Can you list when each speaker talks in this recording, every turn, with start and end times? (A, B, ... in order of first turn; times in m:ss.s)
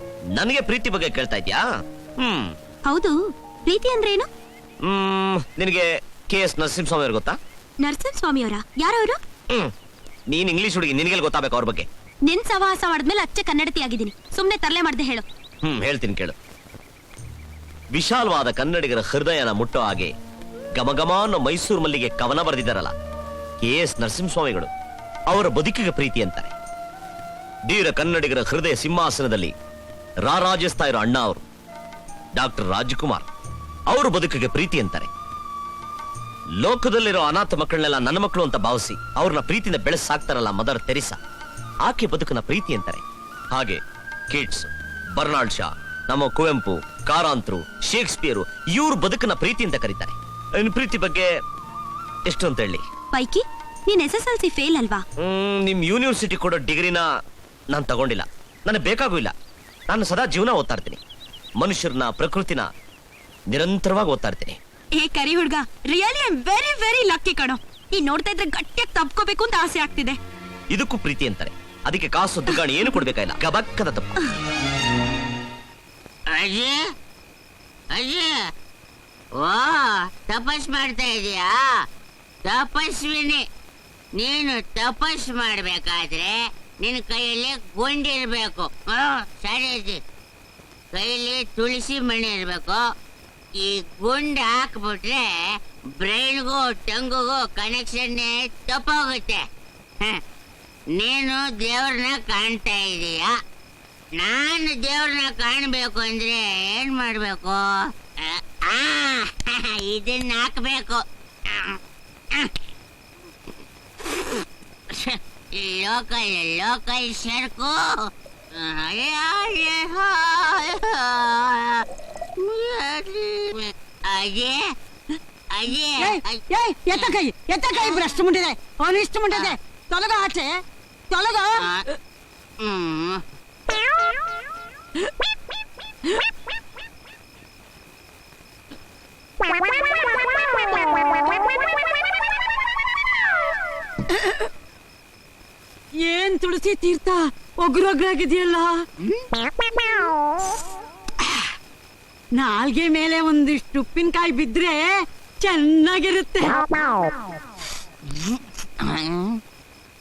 0:00.3-0:01.6 A
0:02.2-0:02.5 A
0:02.8-0:04.3 B
0:04.8-0:07.4 A
0:07.8-0:09.2 B
0:10.3-0:11.9 A
0:12.3-0:15.2 B
0:15.6-0:16.4 A
0:17.9-0:20.1 A
0:20.8-0:22.9 A
0:23.6-0:24.7 A
0:25.3-0:26.5 A
0:27.7-0:29.5 A
0:30.2-0:31.4 A
0:32.4-0:33.2 A
0:33.9-0:35.1 A
0:36.6-0:41.2 A
0:41.8-0:43.0 A
0:43.5-0:43.8 A
0:44.3-0:51.3 A
0:52.3-0:52.8 A
0:53.1-0:55.0 B
0:55.2-0:57.1 A
0:57.7-0:59.3 A
0:59.9-1:01.0 A
1:01.6-1:02.7 A
1:03.5-1:04.6 A
1:05.0-1:10.2 B
1:10.7-1:14.1 A
1:16.3-1:16.8 C
1:17.9-1:18.3 C
1:19.4-1:21.5 C
1:22.5-1:23.4 C
1:24.2-1:30.0 C
1:30.9-1:32.8 C
1:33.6-1:35.2 C
1:36.0-1:39.4 C
1:41.0-1:43.3 C
1:44.2-1:47.6 C
1:48.2-1:51.8 C
1:54.9-2:01.8 C
2:02.4-2:04.6 C
2:05.5-2:06.4 C
2:06.0-2:10.5 D
2:07.8-2:08.1 C
2:11.1-2:11.7 D
2:12.6-2:13.2 C
2:24.1-2:24.5 D
2:26.0-2:28.7 D
2:32.4-2:34.9 D
2:35.4-2:36.8 D
2:38.8-2:39.4 C